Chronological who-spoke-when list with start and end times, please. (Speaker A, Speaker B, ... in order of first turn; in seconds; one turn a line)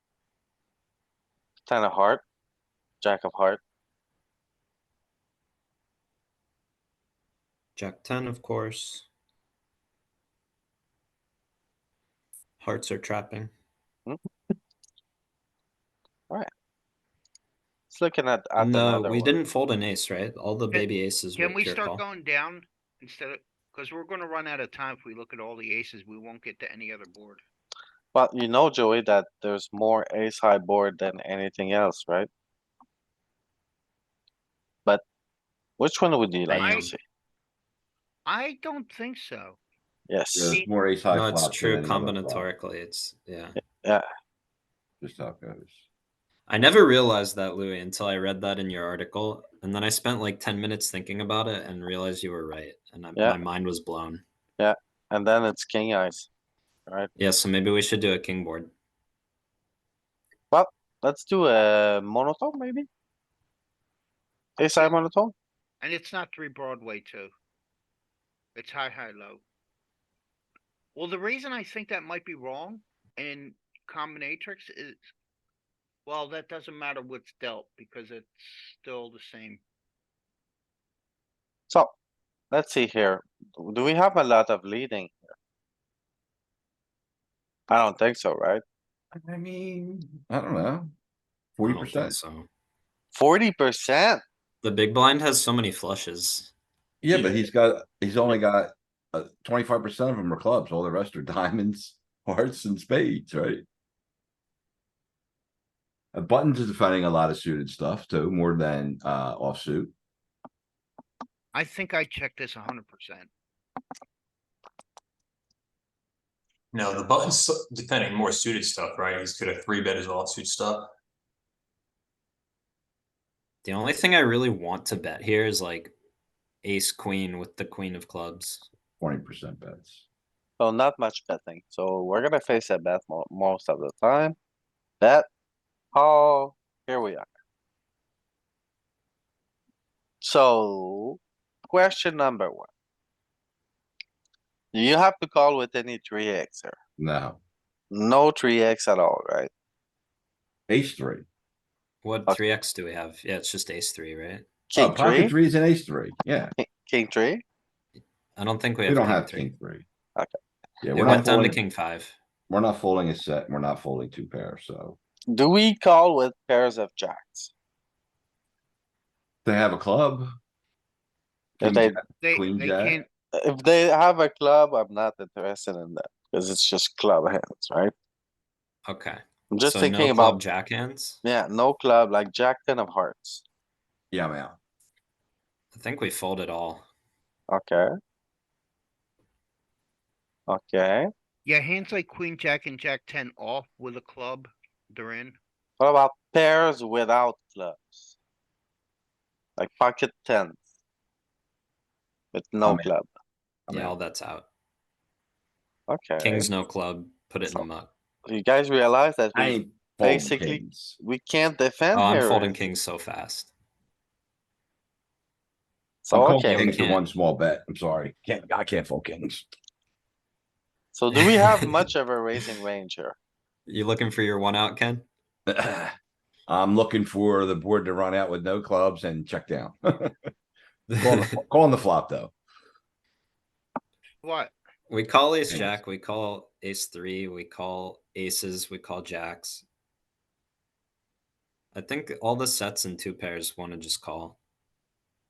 Speaker A: 1.7-2.2
Speaker A: 3.0-3.6
Speaker B: 7.8-9.1
Speaker B: 12.6-13.5
Speaker A: 17.9-19.4
Speaker B: 18.6-22.0
Speaker C: 20.7-27.4
Speaker A: 28.1-32.3
Speaker A: 35.8-37.0
Speaker B: 36.5-36.9
Speaker C: 36.5-36.9
Speaker C: 38.2-39.6
Speaker A: 40.1-40.6
Speaker D: 40.3-42.5
Speaker B: 41.1-43.6
Speaker D: 45.0-45.8
Speaker B: 46.5-54.2
Speaker A: 54.6-56.3
Speaker B: 57.2-58.7
Speaker A: 60.5-62.9
Speaker A: 64.6-65.3
Speaker C: 65.8-67.3
Speaker C: 68.5-69.4
Speaker C: 70.9-75.0
Speaker C: 76.0-79.6
Speaker A: 81.7-81.9
Speaker A: 82.5-85.3
Speaker A: 87.7-88.6
Speaker D: 89.1-90.9
Speaker D: 91.6-92.2
Speaker B: 91.6-92.5
Speaker A: 93.1-94.2
Speaker B: 94.6-96.5
Speaker D: 97.0-103.6
Speaker D: 106.1-109.9
Speaker C: 111.5-113.3
Speaker E: 116.7-120.9
Speaker B: 123.6-125.9
Speaker B: 126.6-128.7
Speaker D: 129.0-130.0
Speaker A: 130.6-134.3
Speaker A: 135.0-135.3
Speaker A: 135.9-137.2
Speaker A: 140.2-142.7
Speaker A: 144.7-146.8
Speaker D: 147.0-147.4
Speaker A: 147.9-149.5
Speaker D: 150.7-151.2
Speaker B: 152.0-154.4
Speaker A: 154.7-155.3
Speaker D: 154.8-156.5
Speaker A: 156.6-157.4
Speaker B: 157.9-159.5
Speaker D: 158.9-159.8
Speaker D: 160.8-161.6
Speaker B: 160.9-162.1
Speaker A: 161.0-161.3
Speaker D: 162.5-165.0
Speaker A: 165.3-167.5
Speaker D: 169.4-170.3
Speaker D: 171.6-173.0
Speaker A: 171.6-172.0
Speaker C: 172.2-173.1
Speaker A: 173.3-177.9
Speaker B: 178.8-181.2
Speaker A: 179.5-180.4
Speaker A: 181.2-183.4
Speaker D: 184.1-184.6
Speaker B: 185.7-186.8
Speaker A: 187.5-187.9
Speaker A: 190.5-191.1
Speaker C: 191.4-195.4
Speaker A: 195.8-198.1
Speaker A: 199.6-200.6
Speaker A: 202.3-203.1
Speaker D: 202.6-202.9
Speaker D: 203.7-203.9
Speaker B: 203.7-204.5
Speaker A: 205.9-206.5
Speaker B: 206.2-207.9
Speaker A: 208.2-212.6
Speaker D: 209.3-211.0
Speaker B: 211.9-213.5
Speaker A: 216.0-216.7
Speaker D: 216.1-219.4
Speaker B: 216.5-217.0
Speaker A: 220.9-223.2
Speaker B: 221.1-221.7
Speaker B: 223.7-225.1
Speaker D: 225.5-225.9
Speaker D: 226.5-230.3
Speaker B: 230.9-231.2
Speaker D: 231.0-232.3
Speaker C: 234.2-234.5
Speaker B: 234.9-239.6
Speaker D: 235.5-235.8
Speaker B: 241.7-244.4